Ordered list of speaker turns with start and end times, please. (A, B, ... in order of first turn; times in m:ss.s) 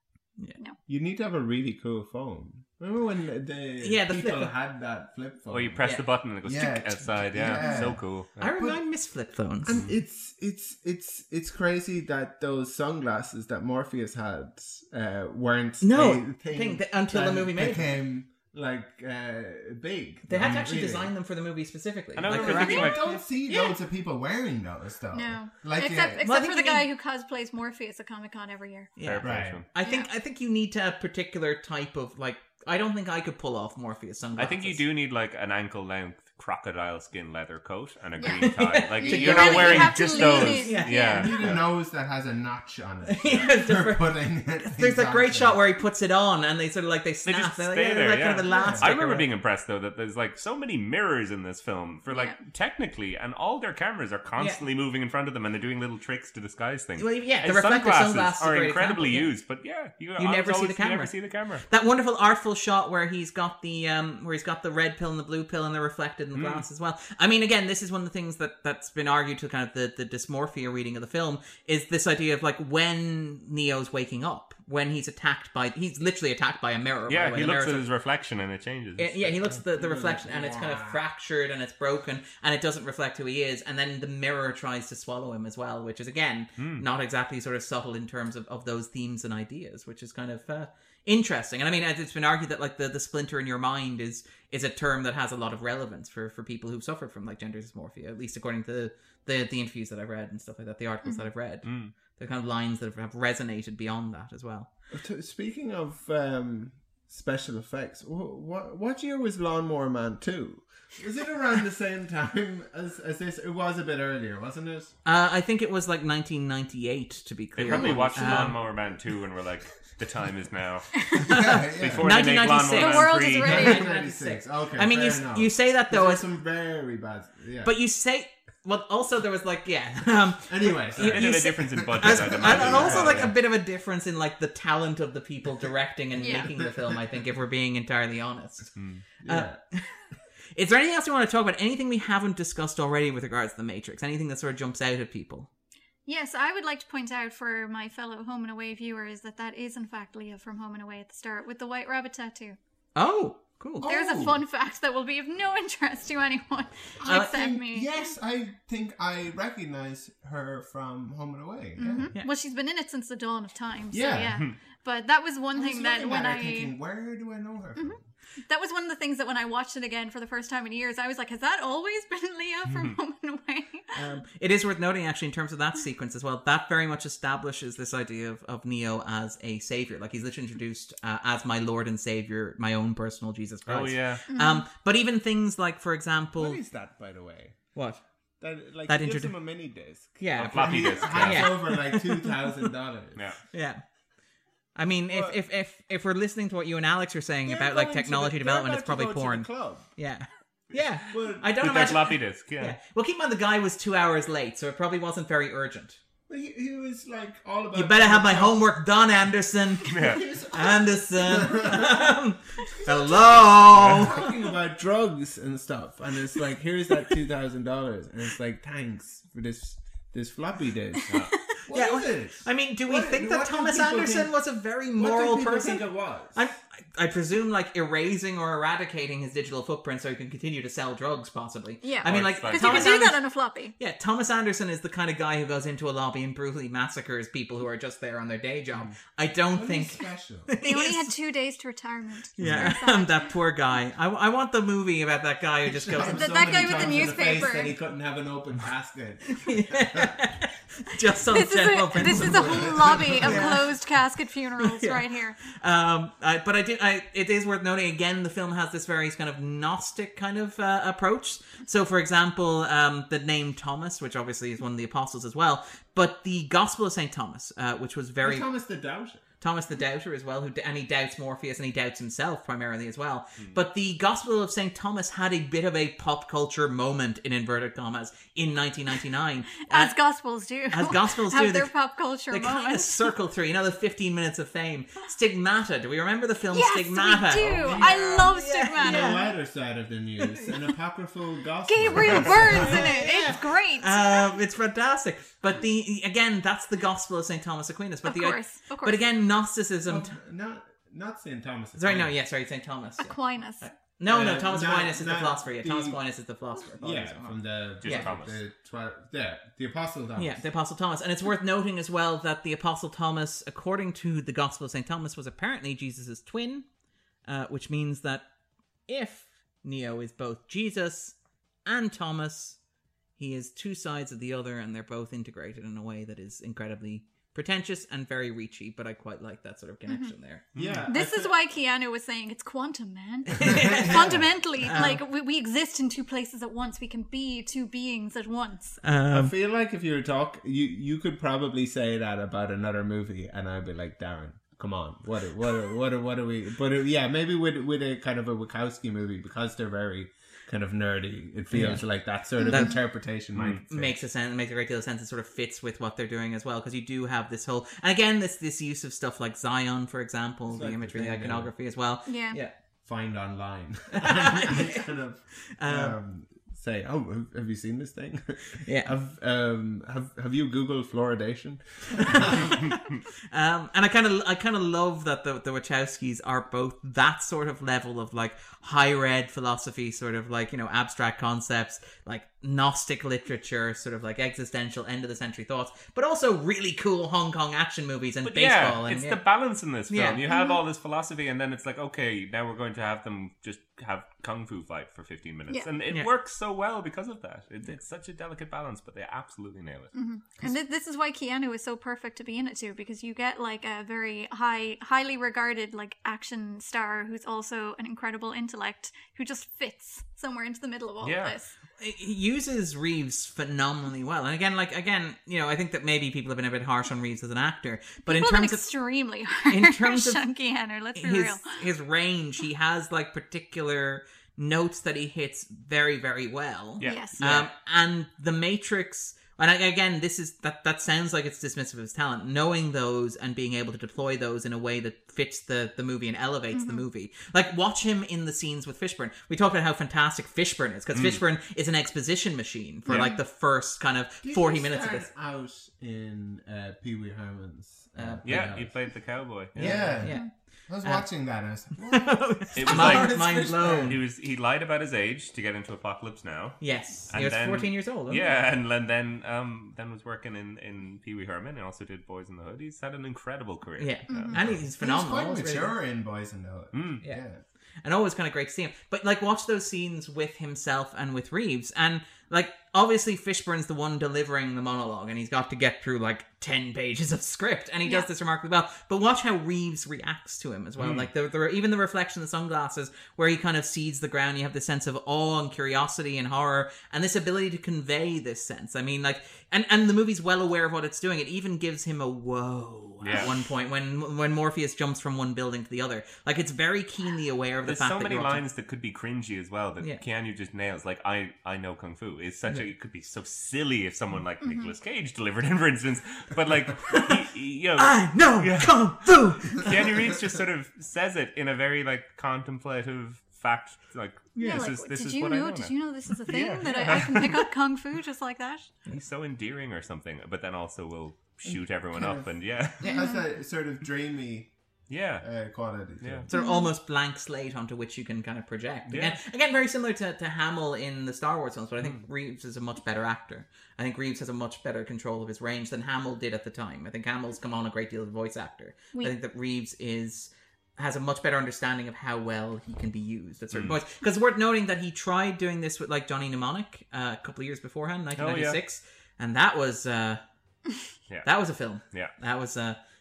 0:00.9-0:08.8 A
0:03.8-0:04.5 B
0:05.5-0:08.5 C
0:07.5-0:07.9 D
0:08.4-0:09.8 B
0:09.6-0:21.1 A
0:15.8-0:18.0 B
0:20.2-0:23.2 B
0:22.2-0:23.0 C
0:22.3-0:26.2 A
0:22.5-0:23.8 D
0:25.1-0:28.9 D
0:26.2-0:26.9 B
0:29.0-0:34.8 B
0:29.0-0:29.7 C
0:29.2-0:29.6 A
0:29.8-0:30.1 D
0:34.4-0:41.6 C
0:38.2-0:41.5 D
0:38.4-0:41.2 B
0:41.1-0:45.6 A
0:43.1-0:44.1 B
0:44.6-0:49.3 B
0:47.2-1:01.7 C
0:48.5-0:49.0 A
0:52.1-0:52.4 D
0:54.4-0:54.6 B
0:57.0-0:59.4 B
1:00.2-1:17.9 B
1:06.3-1:06.6 C
1:17.1-1:19.6 C
1:19.0-1:44.7 B
1:19.7-1:21.0 A
1:26.6-1:26.8 C
1:41.6-1:41.9 C
1:44.9-1:54.9 A
1:55.0-1:58.6 B
1:57.6-2:03.7 C
1:57.6-1:59.0 A
2:01.2-2:02.3 A
2:01.3-2:06.2 B
2:02.7-2:03.9 D
2:03.4-2:07.7 A
2:07.6-2:19.9 B
2:10.5-2:13.4 A
2:11.0-2:13.3 C
2:16.2-2:16.5 D
2:16.2-2:16.8 A
2:18.7-2:19.0 C
2:19.2-2:19.6 A
2:20.5-2:25.5 B
2:26.0-2:32.6 D
2:32.9-2:33.8 B
2:33.8-2:34.4 A
2:33.8-2:38.1 D
2:37.0-2:42.1 A
2:37.1-2:37.4 B
2:41.8-2:46.7 D
2:43.9-2:44.5 A
2:45.5-2:48.1 A
2:47.8-2:53.9 D
2:53.9-3:06.6 B
3:03.7-3:04.2 C
3:04.3-3:04.6 D
3:06.4-3:07.8 A
3:07.7-3:08.0 B
3:08.4-3:13.2 A
3:08.9-3:09.4 B
3:10.2-3:12.7 B
3:10.4-3:11.5 C
3:13.2-3:13.4 C
3:13.5-3:13.8 B
3:14.7-3:26.0 B
3:15.1-3:15.4 A
3:17.4-3:19.9 A
3:21.0-3:21.7 A
3:21.6-3:22.8 C
3:26.3-3:28.7 A
3:27.7-3:34.2 B
3:29.9-3:30.2 C
3:30.1-3:32.0 A
3:32.8-3:44.3 A
3:33.7-3:34.1 C
3:41.7-3:53.2 B
3:45.0-3:46.5 A
3:51.8-3:53.8 D
3:52.0-3:53.1 C
3:53.8-4:01.1 B
3:59.5-4:00.5 A
4:00.6-4:03.3 D
4:02.4-4:06.3 B
4:02.4-4:02.7 C
4:05.6-4:10.1 A
4:06.0-4:07.8 D
4:09.4-4:13.7 B
4:11.3-4:15.4 D
4:12.0-4:13.5 A
4:14.6-4:28.5 B
4:28.2-4:29.2 A
4:29.4-4:40.0 B
4:39.7-4:43.1 D
4:40.7-4:41.7 B
4:42.3-4:49.3 B
4:46.5-4:49.2 D
4:47.6-4:53.2 A
4:50.2-4:50.5 B
4:51.6-4:54.3 D
4:52.5-5:00.1 B
4:58.0-4:59.0 D
4:59.9-5:02.1 A
5:01.8-5:08.1 B
5:03.0-5:03.8 D
5:04.0-5:06.0 A
5:06.8-5:10.4 A
5:07.8-5:08.4 C
5:10.2-5:16.7 B
5:17.2-5:18.3 B
5:18.9-5:22.6 B
5:23.2-5:30.4 B
5:30.5-5:30.8 C
5:30.6-5:31.3 A
5:30.9-5:38.8 D
5:33.4-5:35.0 B
5:33.5-5:34.3 A
5:38.8-5:39.3 B
5:39.1-5:54.0 A
5:51.5-5:51.9 B
5:52.4-5:52.7 D
5:52.4-5:52.8 B
5:53.3-5:53.6 C
5:53.7-6:02.5 B
6:00.5-6:01.5 A
6:02.0-6:02.4 D
6:02.8-6:12.6 A
6:04.0-6:04.8 B
6:05.5-6:06.0 B
6:12.1-6:12.4 B
6:13.3-6:29.2 B
6:28.2-6:39.9 C
6:29.9-6:30.2 B
6:30.3-6:30.6 D
6:39.9-6:51.5 D
6:51.0-6:51.3 C
6:51.8-6:58.7 B
6:58.0-7:01.5 D
6:59.4-7:00.2 B
7:00.9-7:25.1 B
7:06.8-7:07.4 C
7:06.8-7:07.2 D
7:16.5-7:16.8 D
7:20.9-7:21.2 C
7:22.9-7:23.2 D
7:24.2-7:33.9 A
7:27.9-7:29.0 B
7:28.2-7:29.9 C
7:29.5-7:34.0 B
7:32.5-7:44.4 C
7:36.6-7:38.2 B
7:43.8-7:45.7 B
7:44.1-7:44.4 D
7:44.4-7:47.4 A
7:46.7-7:47.0 C
7:47.8-8:18.4 B
8:00.8-8:01.1 C
8:13.0-8:13.3 C
8:17.6-8:37.4 C
8:24.4-8:24.7 D
8:27.8-8:29.7 B
8:34.3-8:34.7 B
8:34.4-8:38.7 D
8:38.9-8:42.9 C
8:41.4-8:44.5 A
8:42.8-8:43.2 D
8:44.9-8:45.3 C
8:45.2-8:46.3 A
8:46.0-8:46.3 C
8:46.3-9:10.2 B
8:46.3-8:46.7 D
8:48.9-8:49.2 C
9:03.5-9:03.8 C
9:08.2-9:08.6 C
9:11.1-9:12.1 C
9:11.2-9:12.8 B